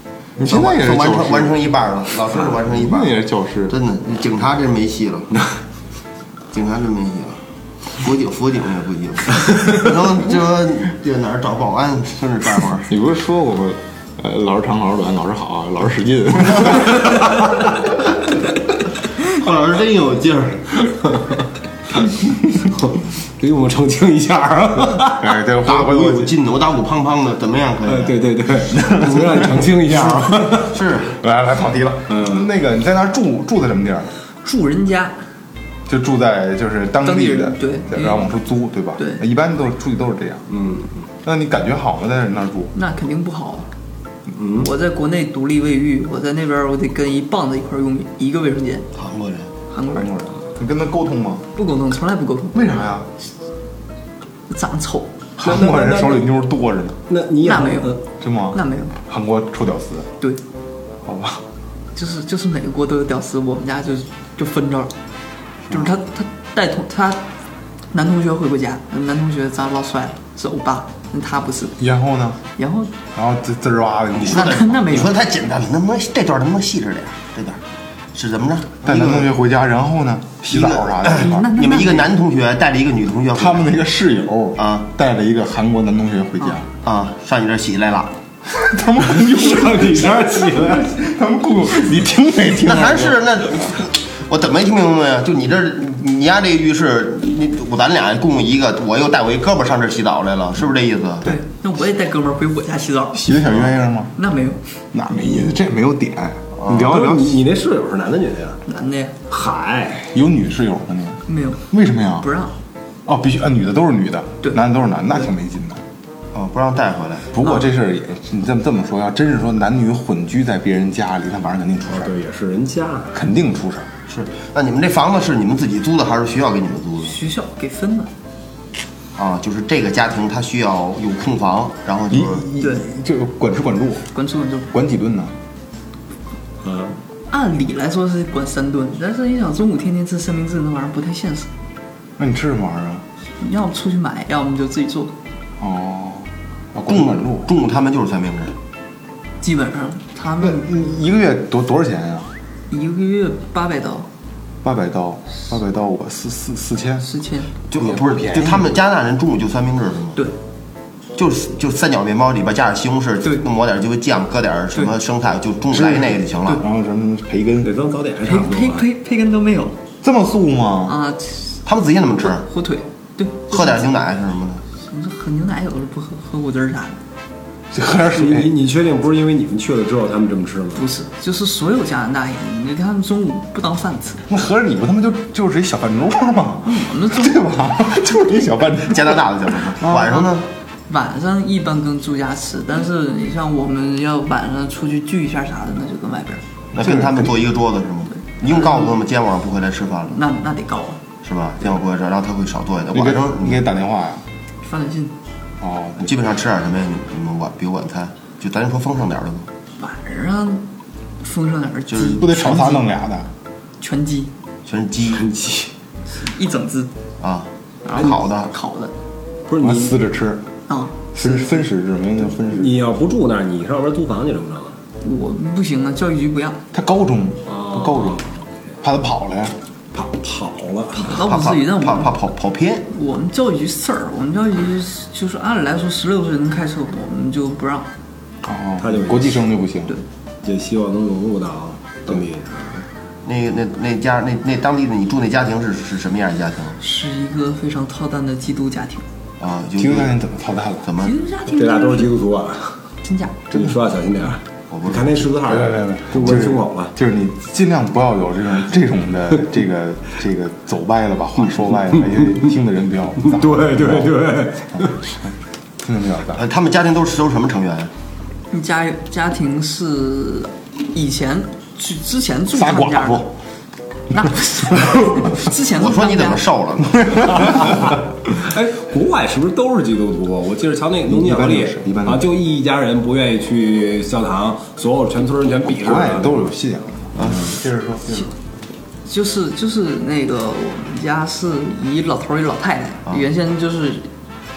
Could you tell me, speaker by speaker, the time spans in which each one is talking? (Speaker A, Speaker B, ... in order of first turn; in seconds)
Speaker A: 0.4-1.6, 2.2-3.8, 12.9-17.2, 25.2-26.3, 28.7-30.6, 31.1-34.1, 35.9-40.5, 41.2-42.7, 49.9-51.5, 52.5-53.1, 55.4-57.0, 58.2-60.1, 61.0-61.4, 71.8-72.4, 73.1-74.9, 78.8-81.5, 83.3-86.7, 88.5-93.3, 103.1-104.2, 104.9-107.4, 110.1-112.3, 113.1-115.8, 117.3-122.1, 123.1-123.9, 132.1-134.1, 134.7-135.3, 142.2-143.1, 145.6-147.5, 150.4-152.3, 154.6-157.1, 157.7-158.8, 165.7-167.7, 170.0-171.0, 177.7-178.5, 184.3-190.1, 196.7-197.5, 202.9-204.2, 205.6-206.2, 212.1-213.3, 219.6-220.5, 221.1-222.8, 226.7-228.3, 228.8-229.6, 238.4-239.9, 249.8-250.9, 255.4-264.2, 265.8-266.4, 272.5-273.3, 274.3-275.3, 277.0-277.9, 281.1-282.3, 285.6-288.3
Speaker B: 0.4-3.2, 3.7-5.4, 6.5-12.9, 19.2-20.9, 25.6-28.2, 30.6-31.2, 48.9-49.5, 74.1-77.6, 78.1-79.3, 80.5-83.7, 84.6-84.9, 86.8-88.1, 92.6-101.3, 106.6-106.9, 116.3-117.3, 124.1-127.2, 129.2-132.5, 146.9-148.6, 157.7-160.2, 161.2-166.6, 171.7-172.5, 173.5-174.6, 188.8-190.5, 196.8-200.2, 201.2-203.6, 206.0-209.5, 211.9-212.2, 214.7-215.3, 217.2-218.5, 231.2-232.9, 243.2-246.8, 249.4-250.1, 250.8-251.2, 254.7-255.2, 266.4-267.9, 275.6-277.7, 287.2-287.5
Speaker C: 22.7-25.3, 27.9-30.8, 32.1-32.5, 40.5-40.9, 44.4-44.7, 55.4-56.3, 57.1-58.0, 89.2-90.9, 106.7-108.6, 109.3-110.1, 121.9-123.2, 136.6-137.0, 167.6-168.9, 178.1-180.8, 215.2-215.7, 219.5-220.0, 222.4-224.8, 227.5-228.4, 229.9-231.2, 238.8-239.5, 240.4-242.8, 251.5-252.8, 253.5-256.9, 263.2-265.1, 278.3-286.5
Speaker D: 34.4-35.1, 37.0-38.3, 39.0-39.2, 42.7-43.7, 44.6-48.9, 49.7-50.1, 51.6-52.6, 54.5-55.1, 57.4-58.0, 58.5-59.0, 62.0-64.9, 65.7-67.2, 67.9-71.8, 72.6-72.9, 74.3-75.2, 81.1-82.1, 101.2-103.4, 104.2-104.6, 108.7-109.2, 111.3-111.7, 112.2-112.5, 117.4-117.7, 127.0-128.1, 132.6-132.9, 134.1-134.7, 137.3-141.5, 143.4-145.1, 149.4-150.7, 152.7-154.1, 157.0-157.5, 168.3-169.8, 170.9-171.6, 172.2-173.9, 174.8-177.0, 180.8-184.2, 186.6-187.4, 190.9-196.4, 198.1-199.0, 200.1-201.0, 204.6-205.1, 209.8-210.7, 211.2-212.9, 213.8-214.3, 216.2-216.9, 217.8-218.9, 220.7-221.7, 225.0-226.6, 230.9-232.2, 232.9-237.9, 246.8-249.1, 251.0-252.1, 253.0-253.4, 268.5-273.3, 274.1-276.4, 289.0-294.1